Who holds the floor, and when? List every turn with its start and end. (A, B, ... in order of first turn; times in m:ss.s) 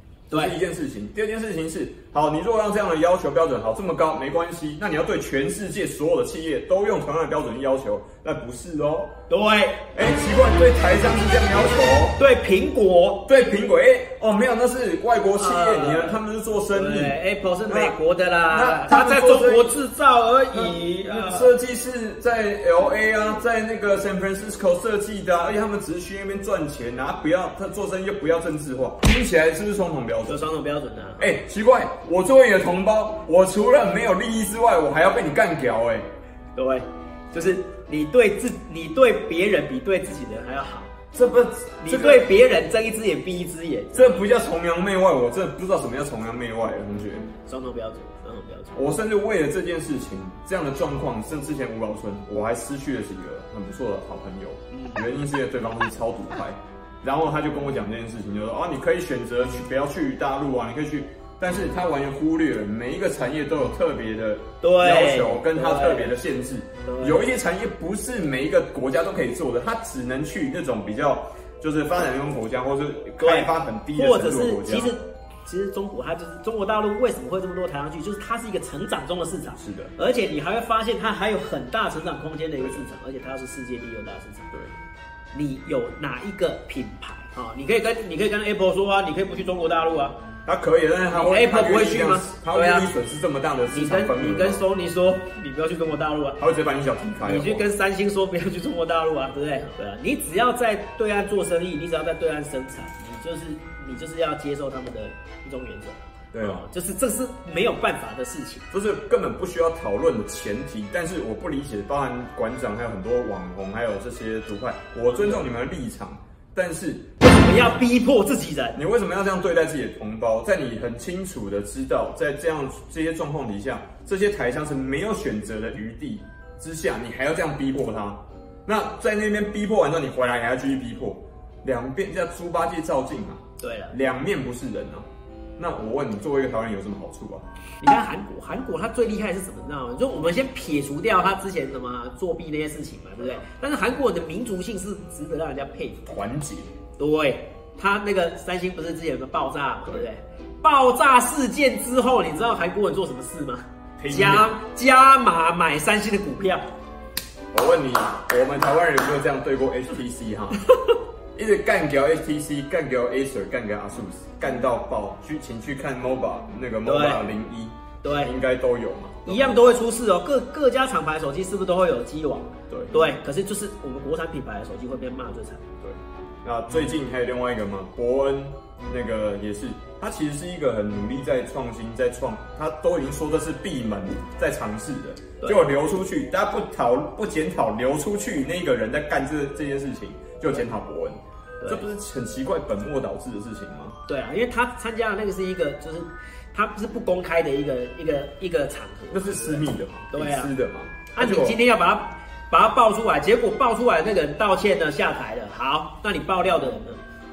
0:00.3-0:00.6 A
0:00.3-0:09.1 B
0:09.3-0:09.8 A
0:10.0-0:12.2 B
0:12.2-0:13.3 A
0:13.3-0:17.2 B
0:15.4-0:16.2 A
0:16.7-0:21.5 A
0:17.7-0:18.0 B
0:18.5-0:19.8 B
0:20.5-0:30.4 B
0:30.3-0:31.3 A
0:31.2-0:36.1 B
0:36.6-0:40.9 A
0:41.1-0:42.3 B
0:41.8-0:44.3 A
0:43.9-0:47.3 B
0:47.5-0:48.8 A
0:48.8-1:14.9 B
0:54.7-0:55.0 A
1:04.6-1:06.2 A
1:06.8-1:07.2 A
1:13.2-1:24.5 A
1:19.6-1:19.9 B
1:25.3-1:30.2 A
1:30.5-1:34.7 B
1:31.1-1:32.9 A
1:33.7-1:36.4 A
1:36.4-1:37.7 B
1:37.2-1:48.7 A
1:46.3-1:46.6 B
1:48.7-1:57.1 B
1:55.1-1:55.5 A
1:57.2-1:58.8 A
1:58.8-2:15.1 B
2:13.6-2:14.0 A
2:15.6-2:17.5 B
2:17.8-2:26.2 A
2:26.1-2:26.7 B
2:27.0-2:36.7 A
2:34.0-2:34.5 B
2:37.5-2:40.6 B
2:41.4-2:49.8 B
2:46.8-2:47.3 A
2:48.0-2:48.3 A
2:49.3-2:55.6 A
2:52.7-2:53.0 B
2:55.8-3:14.0 B
3:11.6-3:11.9 A
3:14.1-3:20.5 A
3:19.1-3:21.6 B
3:21.1-3:27.0 A